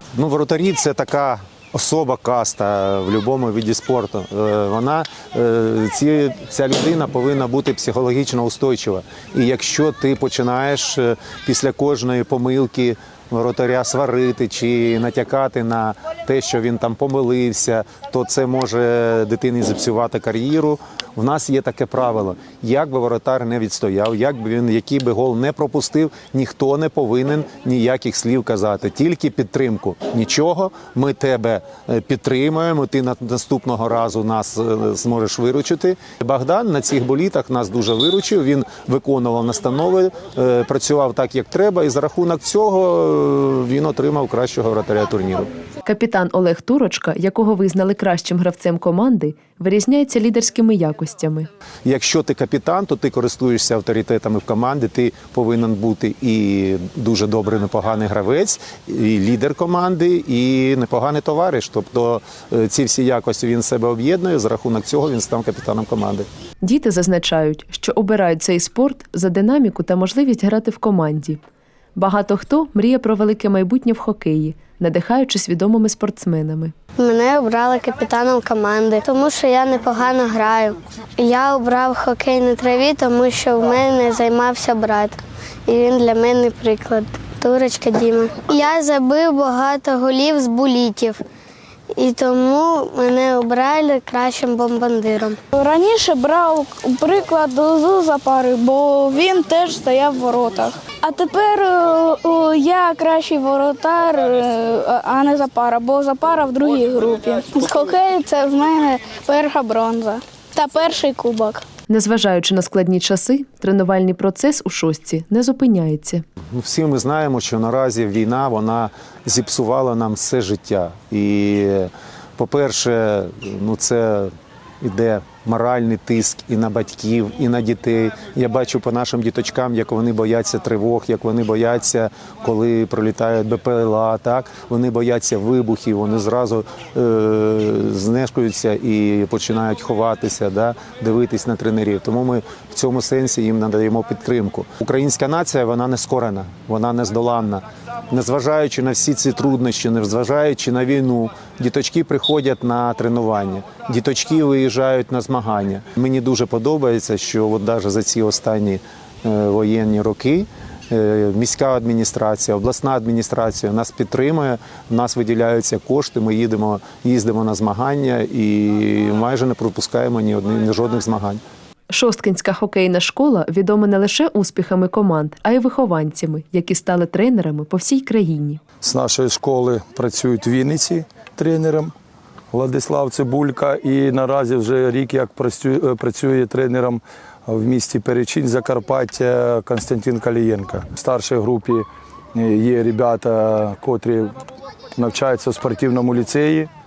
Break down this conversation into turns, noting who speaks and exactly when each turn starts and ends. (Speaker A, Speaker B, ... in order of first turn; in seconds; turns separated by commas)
Speaker A: 0.1-45.5, Speaker B: 45.8-51.5, Speaker A: 51.8-66.3, Speaker B: 66.6-71.4, Speaker B: 71.9-76.7, Speaker C: 77.0-91.2, Speaker C: 91.9-95.4, Speaker D: 95.5-111.6, Speaker B: 111.9-116.2, Speaker A: 116.5-171.4, Speaker B: 171.9-178.6, Speaker E: 178.8-181.9, Speaker E: 182.5-194.3, Speaker E: 194.9-196.7